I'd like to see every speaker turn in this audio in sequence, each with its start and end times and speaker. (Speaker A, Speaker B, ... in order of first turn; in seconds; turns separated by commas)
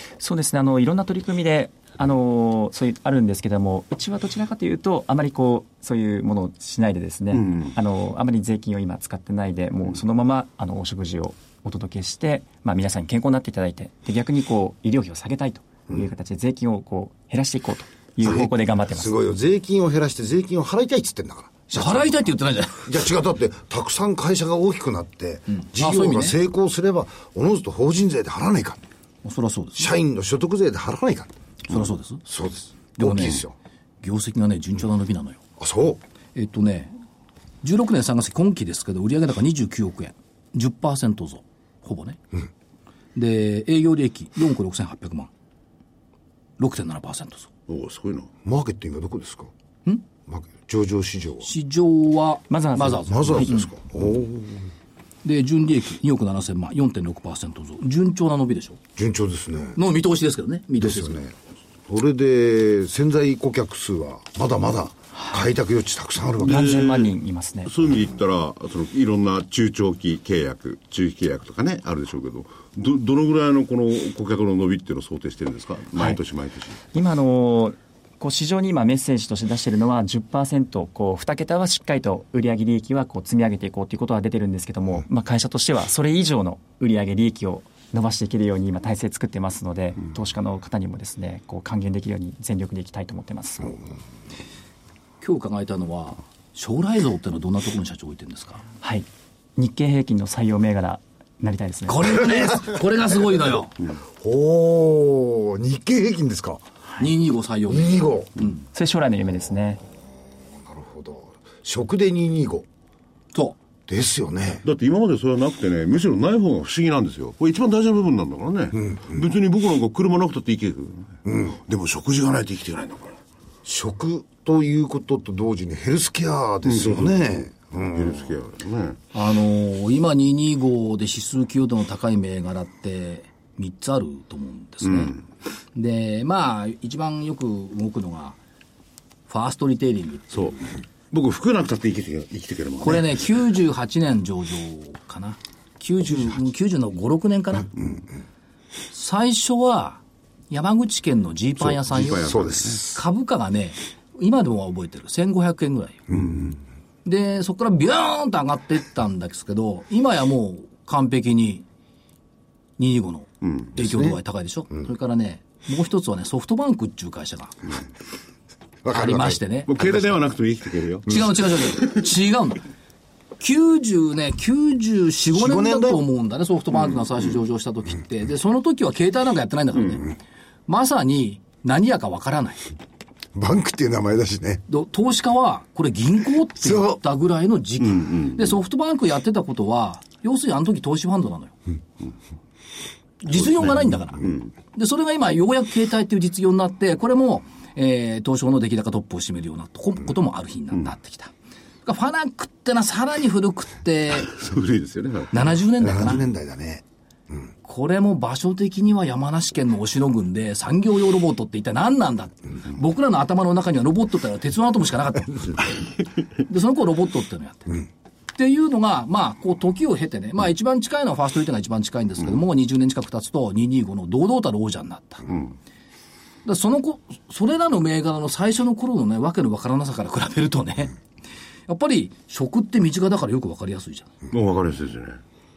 Speaker A: 0.2-19.1, Speaker B: 7.3-7.7, Speaker C: 18.2-22.2, Speaker D: 21.7-22.9, Speaker C: 22.8-28.8, Speaker D: 25.5-26.4, Speaker D: 29.2-29.9, Speaker C: 29.8-31.3, Speaker D: 31.7-32.2, Speaker C: 32.3-33.5, Speaker D: 33.0-33.4, Speaker D: 34.0-35.4, Speaker C: 35.6-36.0, Speaker D: 36.4-36.9, Speaker D: 37.6-42.2, Speaker D: 43.1-45.3, Speaker D: 46.6-47.5, Speaker B: 47.7-48.3, Speaker C: 48.5-49.5, Speaker C: 50.3-51.5, Speaker D: 51.4-53.8, Speaker A: 52.5-53.5, Speaker C: 53.1-54.6, Speaker D: 55.2-58.8, Speaker C: 59.0-59.8, Speaker D: 59.8-61.2, Speaker C: 60.8-61.3, Speaker C: 61.9-66.7, Speaker A: 66.4-67.7, Speaker B: 66.4-67.1, Speaker B: 67.7-76.8, Speaker A: 75.9-76.2, Speaker A: 76.9-93.8, Speaker D: 95.2-98.7, Speaker A: 99.6-102.2, Speaker D: 101.9-103.7, Speaker C: 104.2-106.7, Speaker D: 107.0-108.5, Speaker C: 107.7-108.4, Speaker A: 108.7-109.8, Speaker C: 110.6-112.7, Speaker D: 113.3-113.6, Speaker C: 113.9-114.6, Speaker B: 114.6-123.2, Speaker C: 121.3-121.6, Speaker C: 123.7-128.3, Speaker B: 126.7-129.0, Speaker D: 129.1-135.2, Speaker B: 134.8-135.2, Speaker D: 135.7-138.4, Speaker D: 139.3-140.6, Speaker B: 140.3-140.6, Speaker B: 141.1-143.2, Speaker D: 142.8-147.9, Speaker D: 148.9-156.1, Speaker B: 151.6-152.8, Speaker C: 152.2-153.0, Speaker D: 157.1-161.7, Speaker D: 162.8-167.6, Speaker B: 163.4-163.7, Speaker C: 163.8-164.2, Speaker C: 168.8-169.4, Speaker D: 168.9-169.8, Speaker B: 169.7-171.3, Speaker D: 171.1-172.6, Speaker D: 173.4-180.2, Speaker C: 175.3-176.0, Speaker D: 180.7-182.7, Speaker C: 183.3-184.6, Speaker D: 184.7-191.6, Speaker C: 186.6-187.0, Speaker B: 188.0-188.4, Speaker D: 193.2-201.3, Speaker B: 194.2-194.5, Speaker D: 201.8-204.3, Speaker B: 204.3-205.5, Speaker D: 205.3-206.3, Speaker C: 205.8-206.8, Speaker D: 207.7-215.7, Speaker D: 216.5-217.8, Speaker D: 218.3-225.3, Speaker D: 226.4-231.0, Speaker D: 231.7-234.1, Speaker B: 234.3-235.2